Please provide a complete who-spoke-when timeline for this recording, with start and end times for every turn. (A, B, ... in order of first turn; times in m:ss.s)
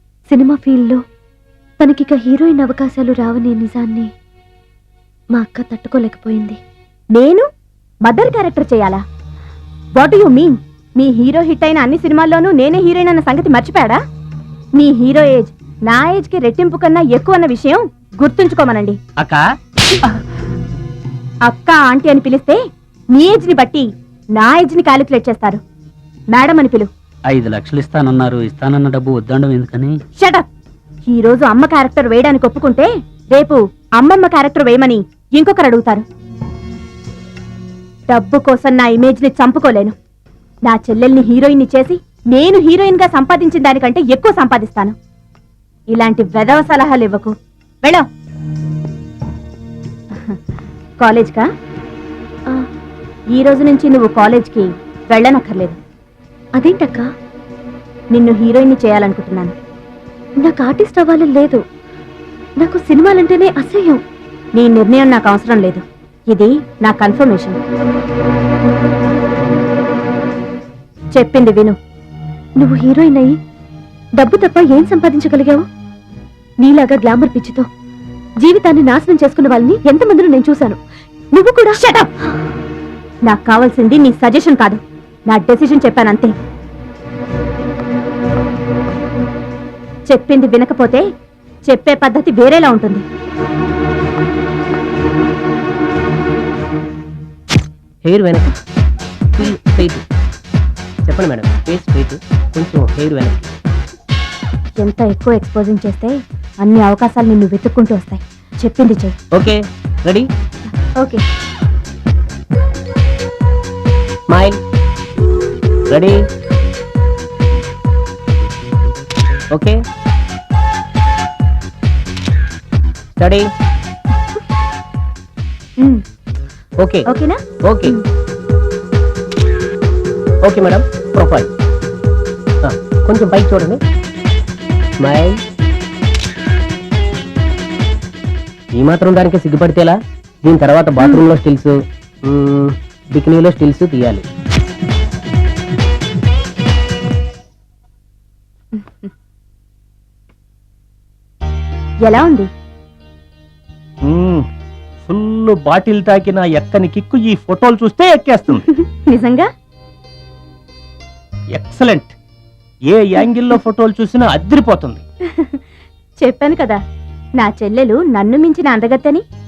0:00.3-0:01.0 A
0:01.8-0:04.1 A
0:05.3-0:06.6 A
0:07.1-0:07.4 B
0:08.0-0:09.0 B
0:10.0-0:14.0 B
0:14.8-0:19.0 B
0:19.2-0:19.4 C
0:21.5-0:22.6 B
0:23.1-0:23.9 B
0:24.4-0:25.6 B
0:26.3-0:26.9 B
0:27.3-0:30.0 C
0:30.2-0:30.5 B
0:31.1-0:36.0 B
0:38.1-0:39.9 B
0:40.6-0:45.0 B
0:45.9-0:48.0 B
0:51.0-0:51.5 B
0:53.3-0:55.8 B
0:56.6-0:57.1 A
0:58.1-0:59.5 B
1:00.4-1:01.6 A
1:02.6-1:04.0 A
1:04.6-1:07.6 B
1:11.1-1:11.8 B
1:12.6-1:13.4 A
1:14.2-1:15.6 A
1:16.6-1:17.7 A
1:18.4-1:20.8 A
1:21.3-1:21.8 A
1:21.8-1:22.1 B
1:23.3-1:26.3 B
1:30.1-1:31.0 B
1:31.7-1:33.0 B
1:38.0-1:38.5 D
1:39.4-1:40.0 D
1:41.1-1:43.5 D
1:44.8-1:49.2 B
1:49.3-1:50.3 D
1:54.3-1:54.6 D
1:55.9-1:56.2 D
1:59.5-1:59.8 D
2:03.2-2:03.5 D
2:06.8-2:07.1 D
2:07.1-2:07.9 B
2:07.6-2:08.0 D
2:10.4-2:11.5 D
2:12.6-2:13.8 D
2:15.0-2:15.4 D
2:18.8-2:24.2 D
2:28.8-2:29.1 B
2:32.0-2:32.5 B
2:34.0-2:34.4 E
2:35.1-2:38.6 E
2:38.7-2:39.5 B
2:41.6-2:42.1 E
2:42.9-2:45.0 E
2:46.2-2:46.8 B
2:47.4-2:49.2 B